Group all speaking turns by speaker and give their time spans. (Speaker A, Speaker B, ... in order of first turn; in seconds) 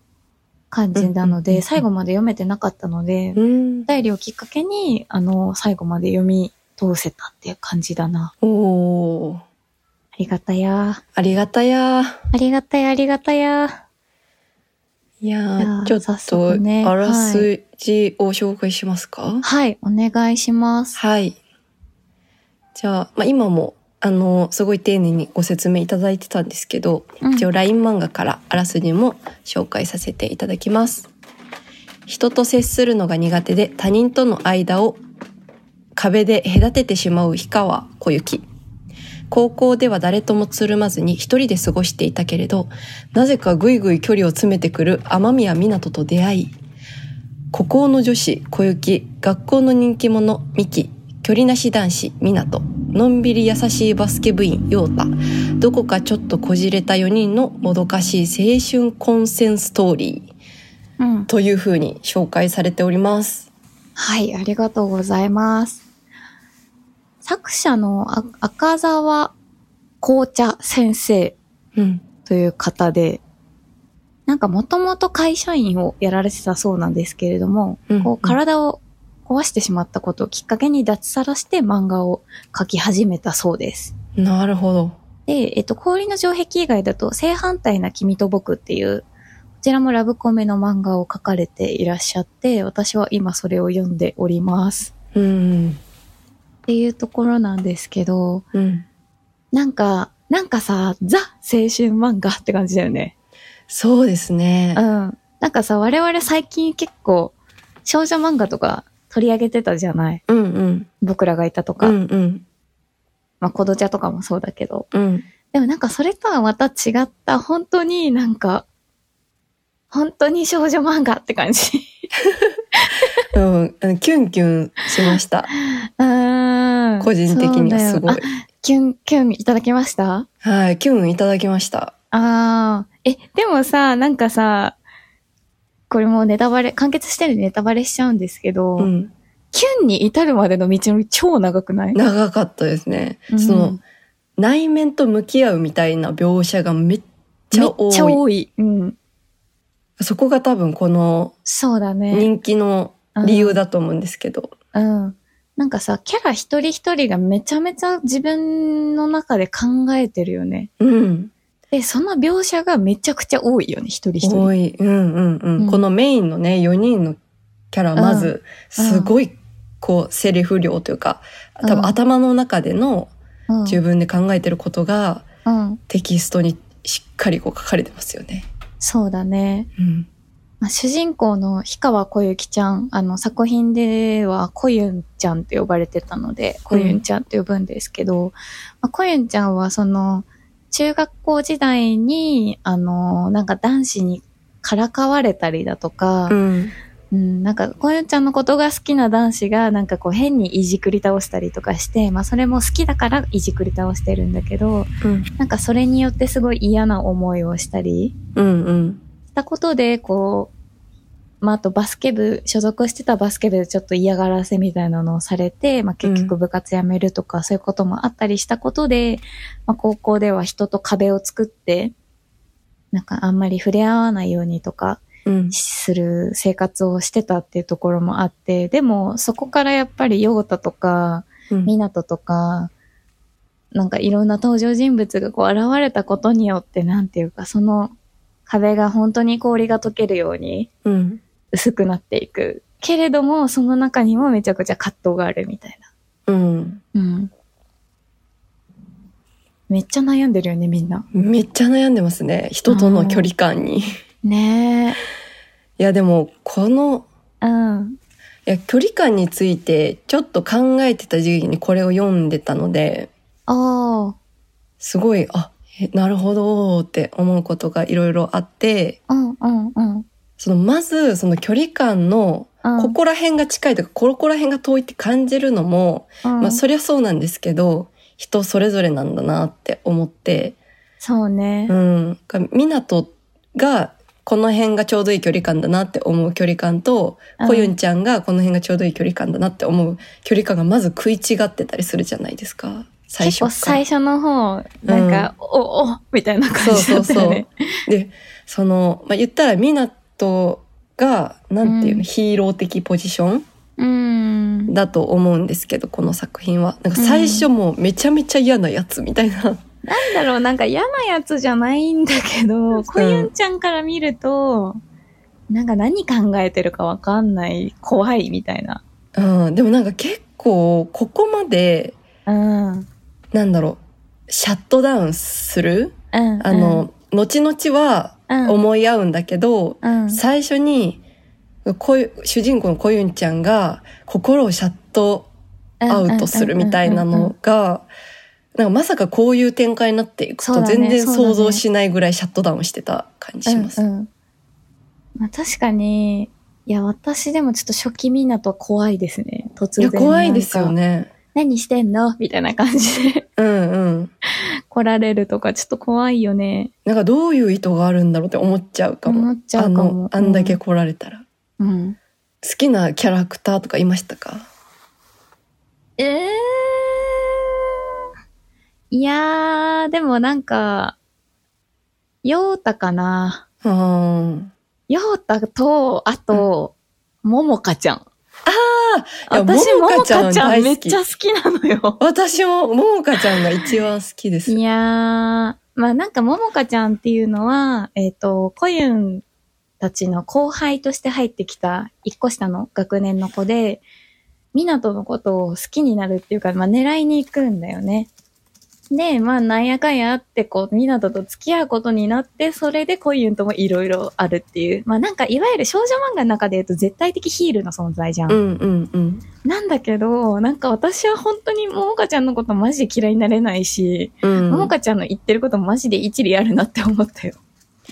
Speaker A: 0.7-8.3, 10.2-11.0, 12.3-13.8, 15.6-17.5, 19.4-21.0, 27.2-27.5, 61.0-61.3, 64.0-65.8, 67.2-69.3, 70.0-71.4, 72.2-73.2, 74.3-83.9, 85.3-89.0, 89.6-94.9, 96.7-98.4, 99.5-103.1, 104.8-107.3, 107.8-110.2, 111.0-112.0, 113.4-114.9, 115.5-118.7, 119.9-121.9, 122.8-123.1, 125.0-130.3, 132.1-134.8, 135.9-138.9, 139.5-142.0, 143.3-143.8, 147.5-148.9, 151.4-152.3, 153.1-153.6, 154.7-160.7, 161.7-164.5, 167.9-169.1, 171.6-172.0, 173.5-173.8, 175.4-175.8, 178.8-179.7, 180.6-196.4, 197.1-208.1, 209.3-210.5, 211.4-221.9, 222.9-232.7, 233.7-237.9, 238.5-240.7, 241.5-245.8, 246.9-247.3, 249.7-251.0, 252.7-253.3, 254.2-255.0, 257.4-258.0, 263.5-264.1, 269.1-270.1, 272.6-273.0, 276.2-276.6, 281.0-281.7, 287.4-287.7, 293.2-297.5, 301.6-302.0, 303.8-304.7, 306.9-307.5, 309.8-314.8, 315.5-318.8, 322.2-322.9, 326.1-326.9, 328.3-328.6, 329.8-330.2, 335.8-337.3, 340.4-341.6, 343.4-344.1, 345.2-350.7, 351.3-353.2, 354.7-356.7, 359.1-360.6, 361.6-362.0, 366.0-367.3, 368.9-371.0, 372.2-373.4, 374.9-378.1, 379.3-382.0, 384.5-389.2, 389.8-393.8, 394.5-398.1, 398.9-408.4, 409.4-417.4
Speaker B: 0.9-1.8, 3.4-3.9, 8.4-9.4, 11.2-12.2, 15.2-19.4, 20.9-21.4, 22.7-31.1, 32.1-35.0, 35.9-38.5, 39.3-46.5, 47.5-60.3, 61.3-63.5, 71.8-72.0, 77.9-78.4, 84.2-85.0, 95.1-95.8, 98.5-98.8, 103.7-104.8, 110.3-110.9, 111.8-112.4, 114.9-115.2, 123.3-125.5, 127.0-128.2, 130.4-131.9, 138.8-139.1, 141.9-143.8, 144.4-148.2, 150.0-151.3, 152.1-154.5, 160.8-161.3, 164.2-167.2, 167.7-173.1, 173.7-175.2, 175.9-178.5, 179.8-180.1, 186.7-187.0, 196.3-196.7, 205.0-205.3, 208.3-209.0, 216.0-216.3, 225.2-225.5, 240.8-241.2, 246.3-246.8, 251.1-253.9, 255.8-257.1, 258.4-263.1, 264.8-269.0, 270.4-280.6, 281.7-293.8, 294.9-295.3, 296.6-303.4, 304.7-309.6, 312.8-313.3, 319.1-321.9, 323.3-331.0, 331.6-335.3, 335.9-337.9, 338.5-343.8, 349.8-351.1, 353.4-354.1, 356.8-361.2, 362.4-364.5, 373.6-374.5, 378.4-381.0, 382.0-384.6, 408.3-409.2, 414.2-414.7